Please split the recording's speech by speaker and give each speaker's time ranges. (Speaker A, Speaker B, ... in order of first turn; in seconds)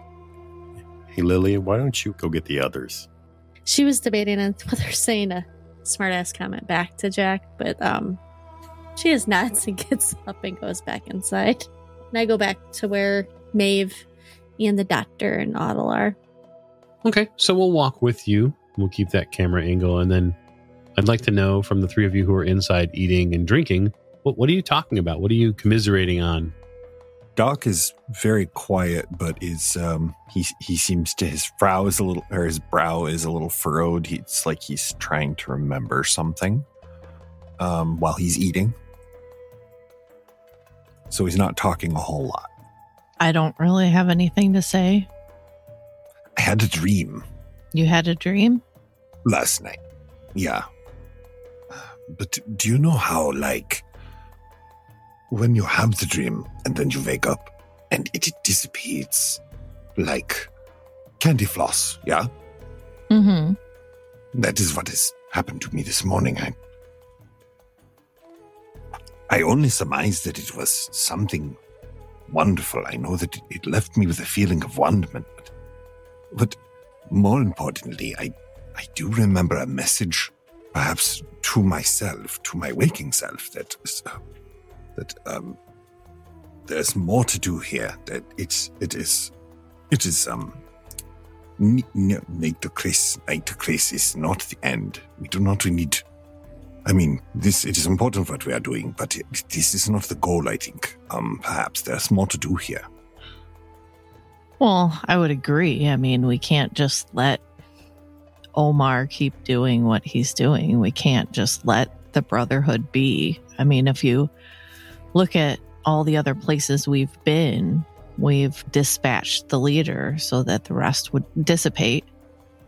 Speaker A: 1.1-3.1
Speaker B: 3.6-8.2, 8.9-14.0, 14.6-16.2
Speaker C: 17.0-20.4, 20.9-26.5
Speaker D: 27.4-36.6, 37.6-38.8, 41.1-42.5, 46.4-47.2, 49.2-49.8, 50.3-50.6, 51.7-53.8, 55.3-59.4, 60.0-60.5, 61.2-62.3, 64.3-66.5, 69.3-71.6, 72.3-75.5, 76.3-76.6, 77.1-84.2, 85.0-85.6, 86.7-89.3, 89.9-90.6, 91.6-96.0, 96.8-102.8
Speaker E: 43.2-45.1, 47.7-48.6, 63.1-63.6, 104.6-107.4, 108.5-114.3, 115.1-122.1